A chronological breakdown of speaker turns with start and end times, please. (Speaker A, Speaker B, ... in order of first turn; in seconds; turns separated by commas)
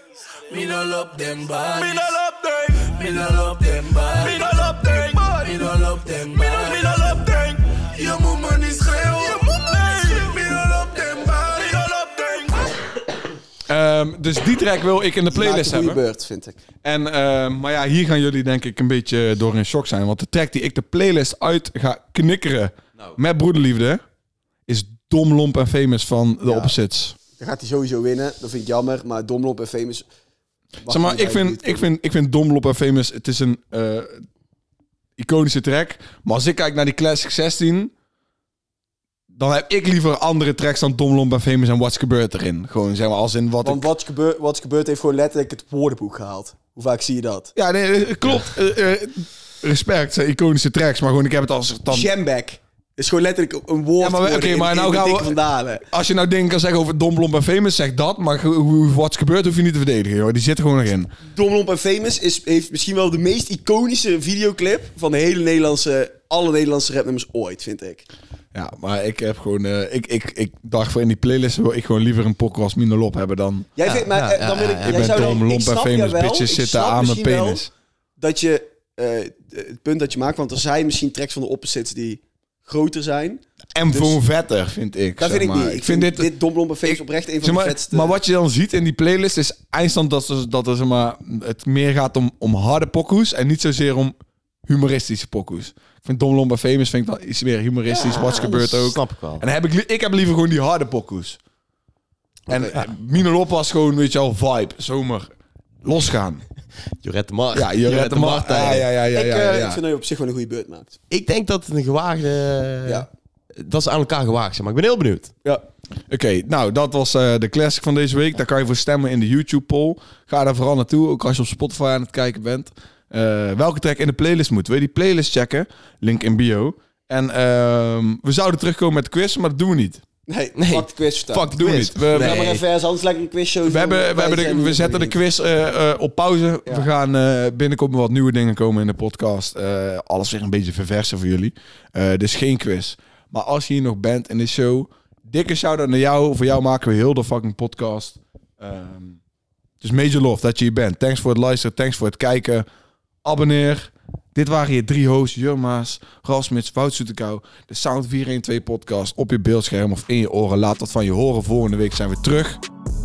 Speaker A: 0.5-12.8, Speaker B: 13.7-16.0, Speaker C: 15.3-16.6, Speaker B: 16.8-24.0, Speaker B: 24.7-27.1, Speaker C: 26.4-26.7, Speaker C: 27.4-30.1, Speaker C: 30.8-31.9, Speaker B: 30.9-34.2, Speaker B: 35.2-37.9, Speaker B: 39.3-43.9, Speaker C: 43.6-47.5, Speaker B: 47.6-52.1, Speaker C: 51.9-55.8, Speaker B: 54.0-55.3, Speaker B: 55.9-61.1, Speaker C: 61.2-68.1, Speaker B: 68.5-73.7, Speaker C: 73.8-77.6, Speaker D: 73.8-75.3, Speaker B: 74.8-77.7, Speaker C: 78.2-84.2, Speaker B: 83.8-86.3, Speaker C: 85.2-88.2, Speaker B: 86.8-94.1, Speaker B: 94.7-101.4, Speaker C: 97.9-98.7, Speaker D: 98.6-99.5, Speaker C: 102.5-102.8, Speaker B: 102.5-105.3, Speaker B: 105.8-106.4, Speaker D: 107.0-108.9, Speaker B: 107.5-109.8, Speaker C: 109.1-111.0, Speaker D: 111.1-115.3, Speaker B: 116.1-130.0, Speaker C: 130.3-131.6, Speaker D: 130.6-132.5, Speaker B: 131.5-132.6, Speaker C: 132.1-135.2, Speaker B: 133.7-149.2, Speaker B: 149.8-152.7, Speaker B: 153.2-162.6